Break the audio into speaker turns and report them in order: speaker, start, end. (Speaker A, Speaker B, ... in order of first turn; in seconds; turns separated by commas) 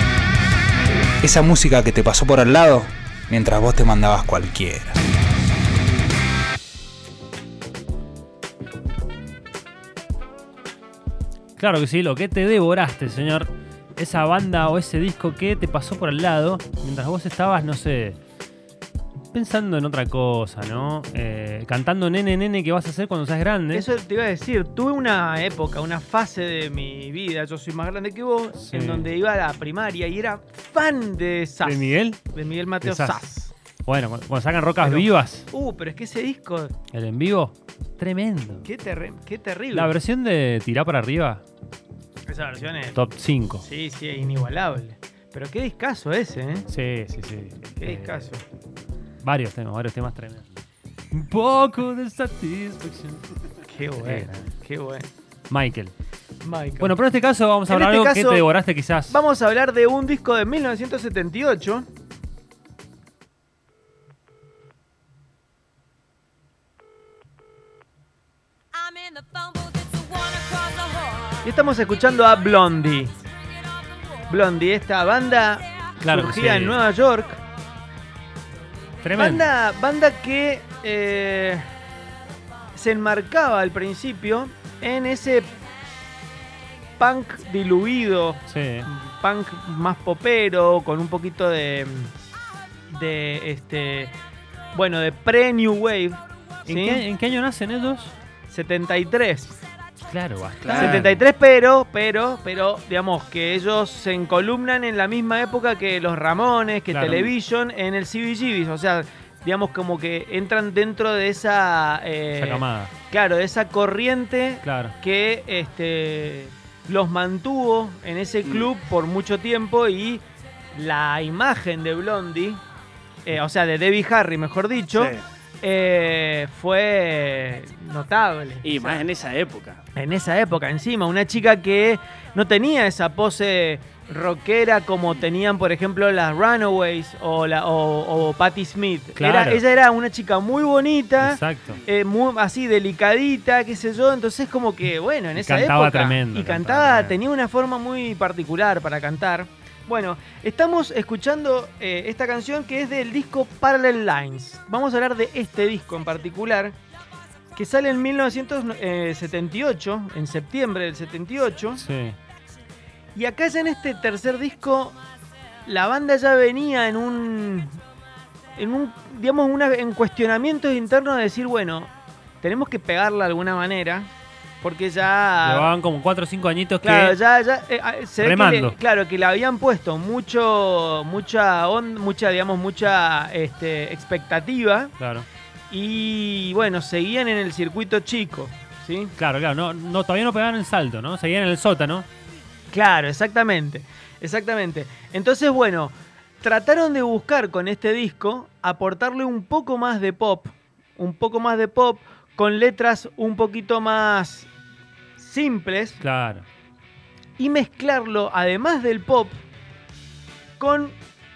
Speaker A: 1.2-5.0, Speaker B: 11.6-18.2, Speaker B: 19.3-23.9, Speaker C: 23.7-33.5, Speaker B: 28.6-29.1, Speaker B: 31.6-32.2, Speaker B: 32.8-33.2, Speaker B: 33.9-35.5, Speaker C: 34.8-36.8, Speaker B: 36.9-38.7, Speaker C: 38.6-40.0, Speaker B: 39.7-41.4, Speaker C: 42.3-43.0, Speaker B: 43.0-43.6, Speaker C: 43.6-46.7, Speaker B: 46.7-48.3, Speaker C: 47.8-48.4, Speaker B: 49.2-50.5, Speaker B: 51.1-53.2, Speaker C: 53.6-55.1, Speaker B: 54.0-54.4, Speaker B: 55.5-55.9, Speaker C: 56.4-57.0, Speaker B: 56.8-59.2, Speaker C: 57.7-58.5, Speaker C: 59.1-61.9, Speaker C: 71.4-73.1, Speaker C: 74.3-77.4, Speaker B: 76.0-76.8, Speaker B: 79.0-79.5, Speaker C: 79.2-81.6, Speaker C: 82.8-85.5, Speaker C: 87.0-92.1, Speaker B: 88.5-88.9, Speaker C: 92.9-94.1, Speaker C: 94.7-97.0, Speaker B: 96.7-98.1, Speaker C: 98.5-99.5, Speaker B: 100.1-101.2, Speaker D: 100.6-101.0, Speaker C: 100.7-122.6, Speaker B: 106.9-107.3, Speaker B: 112.4-112.9, Speaker B: 114.6-115.0, Speaker C: 123.3-129.1, Speaker D: 124.9-125.2, Speaker D: 128.6-129.8, Speaker C: 129.9-156.8, Speaker B: 139.2-139.6, Speaker B: 141.2-141.8, Speaker B: 145.4-147.2, Speaker C: 157.6-161.8, Speaker B: 161.8-162.2, Speaker C: 163.2-165.0, Speaker C: 165.7-167.8, Speaker C: 168.6-171.9, Speaker C: 172.4-174.1, Speaker C: 174.6-175.7, Speaker B: 175.4-177.2, Speaker C: 176.8-184.9, Speaker B: 178.2-178.8, Speaker B: 185.0-185.3, Speaker C: 185.7-189.1, Speaker B: 189.2-192.1, Speaker C: 192.7-204.5, Speaker C: 205.2-206.0, Speaker B: 206.0-206.4, Speaker C: 207.4-209.4, Speaker C: 210.6-210.9